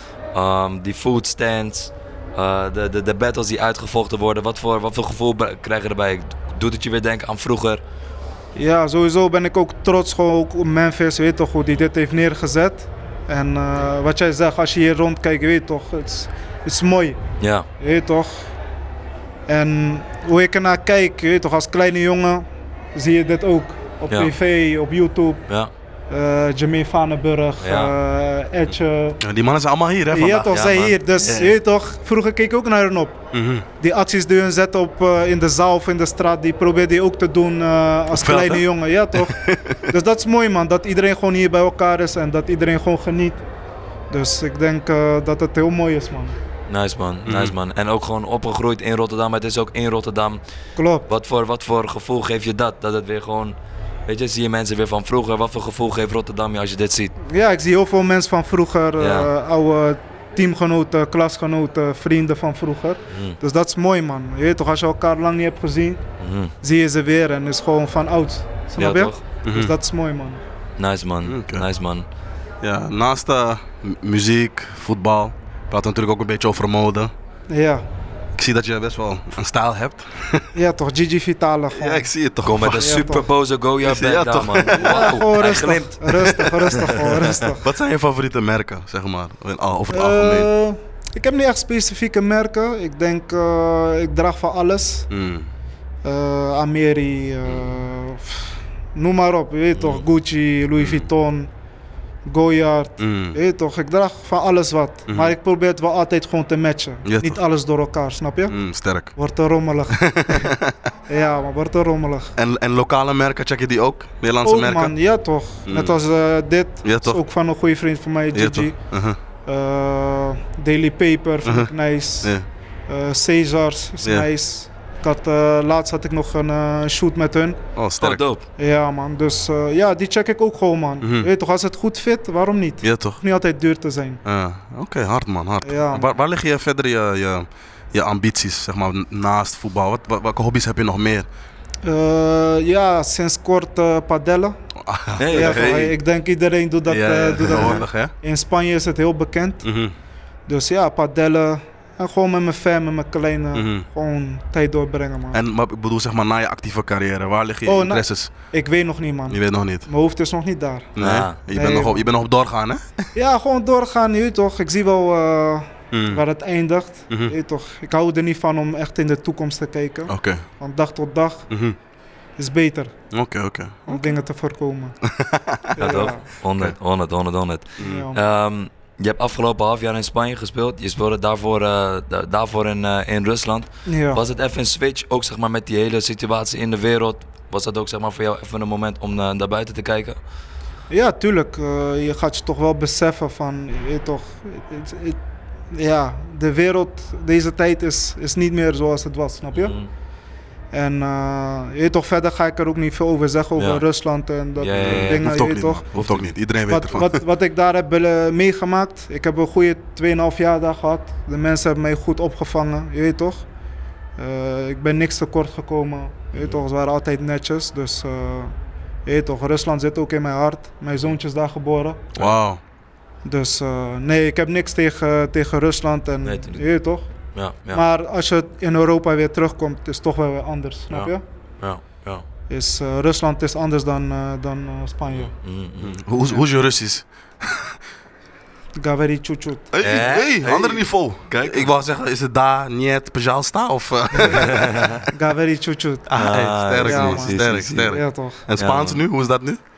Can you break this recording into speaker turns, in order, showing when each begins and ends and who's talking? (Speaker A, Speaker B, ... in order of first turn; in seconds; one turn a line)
Speaker A: 0.3-7.8
Speaker B: 8.6-17.2
Speaker A: 17.4-17.7
Speaker B: 17.8-18.5
Speaker B: 19.5-25.4
Speaker B: 26.1-29.2
Speaker A: 27.6-27.9
Speaker C: 29.2-30.5
Speaker B: 30.1-33.2
Speaker A: 30.4-31.6
Speaker C: 33.3-33.6
Speaker B: 33.8-43.4
Speaker C: 38.1-39.8
Speaker B: 44.1-46.4
Speaker A: 46.7-50.4
Speaker C: 47.3-47.6
Speaker B: 50.8-51.1
Speaker A: 51.0-57.1
Speaker B: 57.3-66.0
Speaker A: 59.0-59.3
Speaker A: 63.1-63.4
Speaker A: 66.2-66.5
Speaker B: 66.6-70.4
Speaker A: 68.7-69.2
Speaker C: 69.4-69.7
Speaker A: 70.8-72.1
Speaker C: 71.2-71.7
Speaker C: 72.6-77.1
Speaker B: 77.5-77.8
Speaker C: 78.3-80.5
Speaker B: 80.5-82.1
Speaker C: 81.7-83.2
Speaker A: 82.4-87.3
Speaker B: 82.7-83.3
Speaker C: 83.8-85.2
Speaker B: 84.8-87.7
Speaker C: 86.2-90.5
Speaker B: 89.9-95.1
Speaker C: 95.1-95.5
Speaker B: 96.0-101.5
Speaker A: 99.8-100.0
Speaker C: 100.8-101.1
Speaker B: 102.3-108.6
Speaker C: 103.0-103.4
Speaker C: 105.1-105.3
Speaker C: 107.0-107.4
Speaker C: 108.5-109.2
Speaker B: 109.1-110.5
Speaker C: 109.9-110.8
Speaker B: 111.1-112.3
Speaker C: 112.4-115.0
Speaker B: 114.4-118.8
Speaker C: 115.7-116.0
Speaker C: 116.8-117.2
Speaker C: 118.3-119.2
Speaker B: 119.5-122.3
Speaker C: 121.4-121.7
Speaker B: 122.9-127.6
Speaker C: 127.8-128.2
Speaker A: 128.0-128.4
Speaker B: 128.6-134.2
Speaker C: 131.0-131.3
Speaker C: 132.8-133.2
Speaker C: 134.2-141.3
Speaker B: 135.6-136.1
Speaker B: 141.8-144.6
Speaker C: 144.8-145.9
Speaker A: 145.2-145.9
Speaker B: 145.3-149.7
Speaker C: 146.9-148.1
Speaker C: 149.6-149.9
Speaker B: 150.5-155.4
Speaker C: 153.5-153.9
Speaker C: 155.3-158.3
Speaker B: 157.7-160.9
Speaker C: 159.3-159.9
Speaker C: 161.0-163.0
Speaker A: 161.0-161.4
Speaker B: 161.5-162.1
Speaker B: 163.2-171.5
Speaker C: 165.9-166.2
Speaker C: 170.1-170.4
Speaker C: 171.5-171.8
Speaker B: 172.4-172.9
Speaker C: 173.1-174.1
Speaker B: 173.9-175.0
Speaker C: 175.1-175.8
Speaker B: 175.8-176.3
Speaker A: 175.8-190.2
Speaker B: 177.8-178.2
Speaker C: 177.8-178.1
Speaker B: 183.9-184.2
Speaker B: 190.9-195.2
Speaker B: 195.7-199.8
Speaker A: 199.5-199.9
Speaker B: 200.7-205.9
Speaker A: 203.6-203.8
Speaker A: 204.6-205.3
Speaker C: 204.8-207.2
Speaker A: 206.0-206.3
Speaker B: 206.7-213.4
Speaker B: 214.2-218.5
Speaker A: 216.3-216.6
Speaker B: 219.1-222.0
Speaker C: 222.2-222.6
Speaker B: 223.2-227.1
Speaker A: 226.2-226.6
Speaker A: 227.3-227.8
Speaker B: 227.7-231.2
Speaker A: 230.9-232.2
Speaker B: 232.5-235.3
Speaker A: 235.1-236.0
Speaker C: 235.8-237.7
Speaker B: 238.8-239.7
Speaker C: 239.7-245.0
Speaker A: 239.8-241.7
Speaker A: 244.2-245.0
Speaker B: 245.1-246.1
Speaker C: 246.1-249.6
Speaker A: 246.2-248.0
Speaker B: 246.8-248.4
Speaker A: 248.6-249.0